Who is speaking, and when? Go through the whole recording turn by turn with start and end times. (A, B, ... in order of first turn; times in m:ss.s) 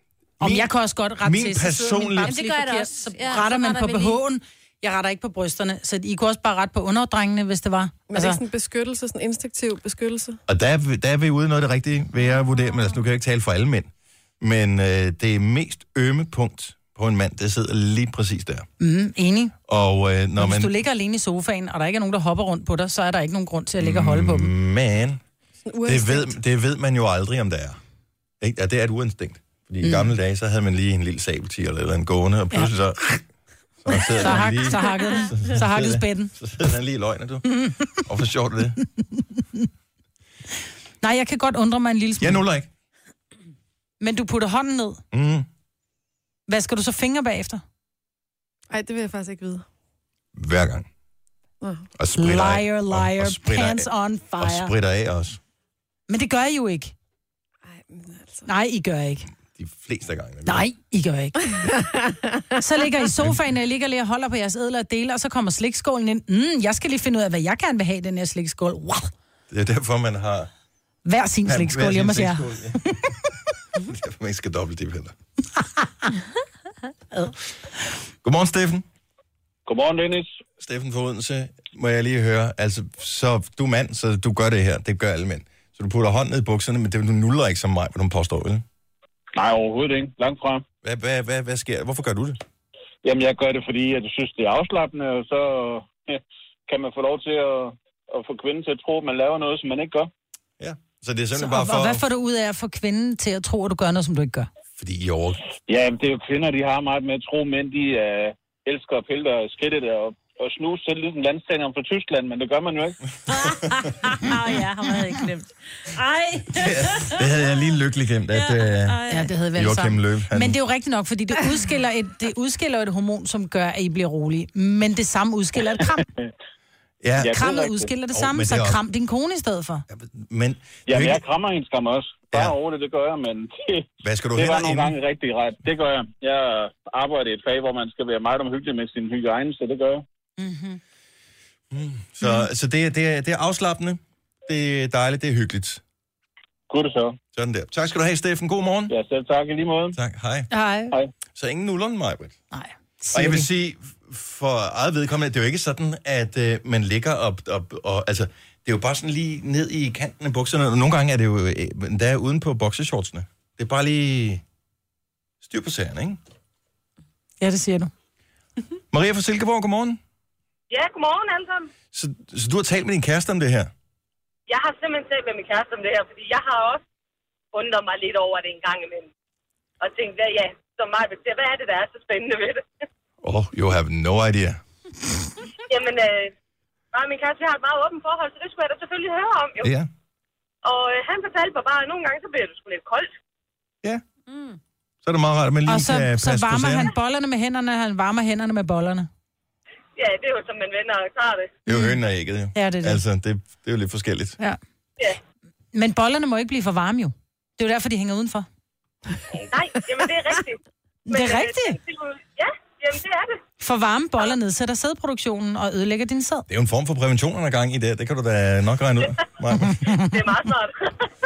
0:00.4-0:00.7 A
0:00.4-0:08.4 B
0:01.2-0:02.3 A
0:02.2-0:04.2 C
0:08.1-0:10.4 D
0:10.5-0:13.9 A
0:14.4-0:18.6 A
0:18.8-0:19.5 B
0:19.7-0:20.7 A
0:20.4-0:24.5 B
0:23.8-0:25.2 A
0:25.6-0:26.3 D
0:25.8-0:27.8 A
0:28.4-0:33.2 A
0:29.8-0:30.1 B
0:33.8-0:38.8 A
0:34.2-0:36.3 B
0:41.0-0:42.4 B
0:42.2-0:42.7 A
0:44.0-0:45.0 B
0:45.1-0:45.5 A
0:46.5-0:47.6 B
0:48.7-0:49.6 D
0:50.3-0:50.8 A
0:51.6-0:51.9 D
0:52.0-0:55.4 A
0:52.2-0:54.7 B
0:56.1-0:56.9 B
0:57.6-0:58.5 D
0:58.4-0:59.3 B
0:59.5-1:00.6 A
1:00.4-1:01.6 B
1:01.6-1:02.4 D
1:02.5-1:09.1 B
1:09.5-1:10.5 A
1:11.0-1:13.1 B
1:11.4-1:13.0 A
1:13.8-1:15.1 A
1:18.2-1:18.8 A
1:19.7-1:20.4 E
1:20.6-1:28.6 A
1:29.3-1:30.6 E
1:30.8-1:32.4 A
1:33.0-1:40.1 E
1:40.6-1:42.0 A
1:41.3-1:44.5 B
1:44.8-1:45.4 A
1:45.7-1:53.0 E
1:53.3-1:57.3 C
1:56.5-1:59.0 A
1:58.3-1:59.3 C
1:59.1-2:06.0 B
1:59.5-2:00.6 A
2:07.0-2:07.4 A
2:07.2-2:07.9 E
2:07.3-2:09.8 B
2:08.1-2:08.8 A
2:09.9-2:11.2 A
2:10.9-2:20.0 E
2:12.3-2:12.6 A
2:14.0-2:15.0 A
2:20.4-2:20.8 B
2:21.7-2:25.8 A
2:26.7-2:27.2 E
2:27.3-2:28.9 A
2:28.9-2:30.0 E
2:29.9-2:30.5 A
2:30.5-2:30.9 B
2:31.3-2:32.4 A
2:32.5-2:33.5 B
2:33.1-2:44.4 A
2:45.4-2:46.2 A
2:47.4-2:47.9 B
2:48.9-2:50.0 A
2:50.7-2:51.7 F
2:51.9-2:53.7 A
2:54.5-2:56.8 F
2:57.5-2:59.1 F
2:59.8-3:02.6 F
3:03.2-3:04.6 A
3:05.7-3:06.3 F
3:06.9-3:09.7 F
3:09.6-3:09.9 A
3:10.6-3:13.1 F
3:14.3-3:14.6 C
3:15.0-3:16.9 A
3:15.6-3:19.1 B
3:20.0-3:21.6 F
3:21.6-3:24.4 A
3:21.7-3:22.0 B
3:22.5-3:23.0 B
3:25.7-3:28.5 B
3:29.3-3:33.4 F
3:31.1-3:31.8 B
3:33.6-3:36.5 B
3:36.5-3:39.9 A
3:39.7-3:40.1 B
3:39.8-3:41.1 F